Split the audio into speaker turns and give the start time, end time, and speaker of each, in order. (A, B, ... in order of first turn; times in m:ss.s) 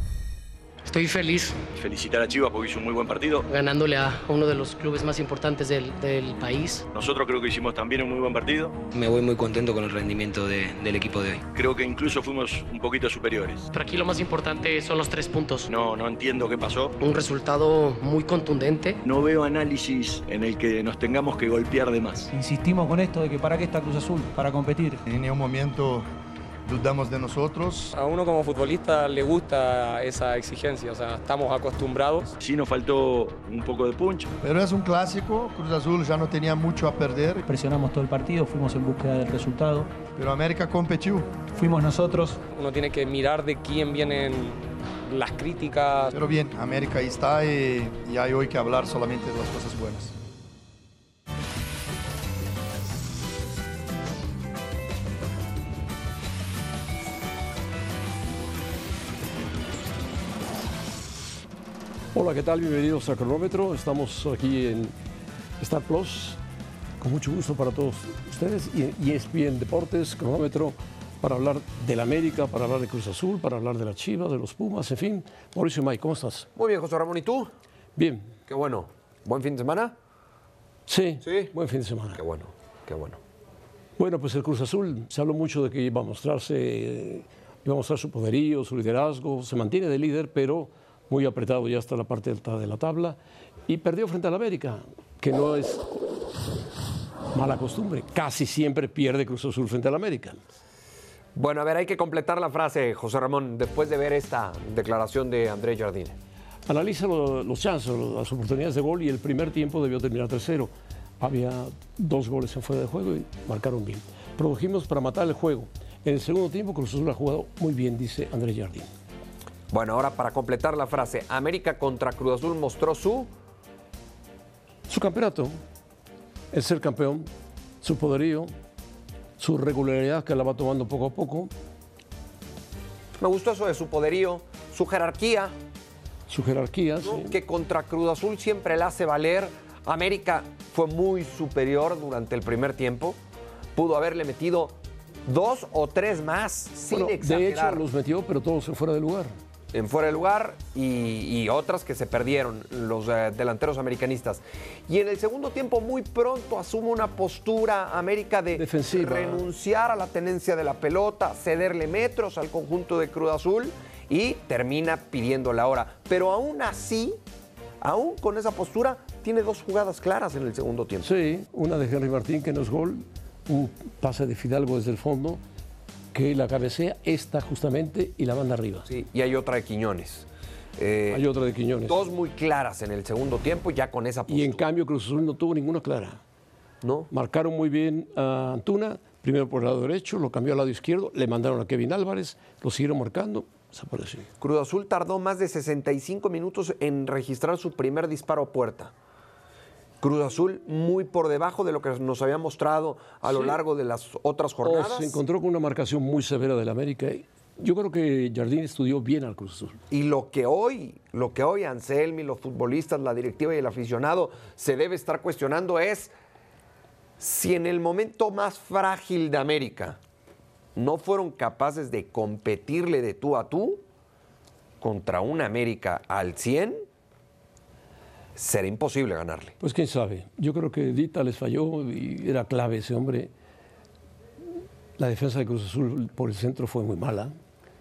0:00.8-0:01.6 A
0:01.7-0:03.4 B
0:03.5-0:06.8 A
0:06.9-0:08.8 B
0:08.9-0:11.4 C
0:11.5-0:13.7 B
0:13.7-0:15.7 A
0:15.7-0:17.0 B
0:17.0-0:19.0 A
0:19.0-0:22.3 B
0:22.3-0:25.0 D
0:25.1-0:26.1 E
0:26.6-0:27.9 E
0:27.9-0:32.3 F
0:32.4-0:34.3 B
0:34.4-0:37.4 E
0:37.4-0:39.9 D
0:40.2-0:41.4 E
0:41.5-0:42.4 D
0:42.6-0:44.5 F
0:45.1-0:46.1 F
0:46.1-0:50.1 E
1:02.1-1:04.9 G
1:05.6-1:06.4 G
1:07.0-1:16.5 G
1:16.6-1:17.5 H
1:18.0-1:18.3 G
1:18.5-1:20.0 H
1:20.9-1:22.2 G
1:21.2-1:21.5 H
1:22.2-1:23.2 H
1:24.0-1:35.8 G
1:37.3-1:40.4 G
1:41.3-1:46.2 H
1:46.7-1:58.9 G
1:59.7-2:03.3 H
2:04.9-2:05.5 G
2:06.5-2:07.3 G
2:07.8-2:08.5 G
2:09.4-2:11.5 G
2:13.2-2:15.6 H
2:16.3-2:17.4 G
2:17.0-2:23.2 H
2:23.7-2:27.8 H
2:26.9-2:29.3 G
2:29.7-2:47.2 H
2:38.5-2:39.4 G
2:47.8-2:51.1 H
2:51.0-2:55.4 G
2:56.1-2:58.9 G
2:58.9-3:01.3 H
3:01.1-3:02.0 G
3:01.9-3:04.6 H
3:04.3-3:06.2 G
3:06.8-3:07.1 H
3:07.1-3:14.3 G
3:14.4-3:18.9 H
3:20.0-3:25.2 H
3:23.2-3:23.6 G
3:24.6-3:29.8 G
3:29.9-3:36.1 H
3:37.2-3:40.0 H
3:40.8-3:43.8 H
3:44.8-3:46.8 H
3:48.4-3:49.6 H
3:49.6-3:53.3 G
3:55.0-3:57.3 G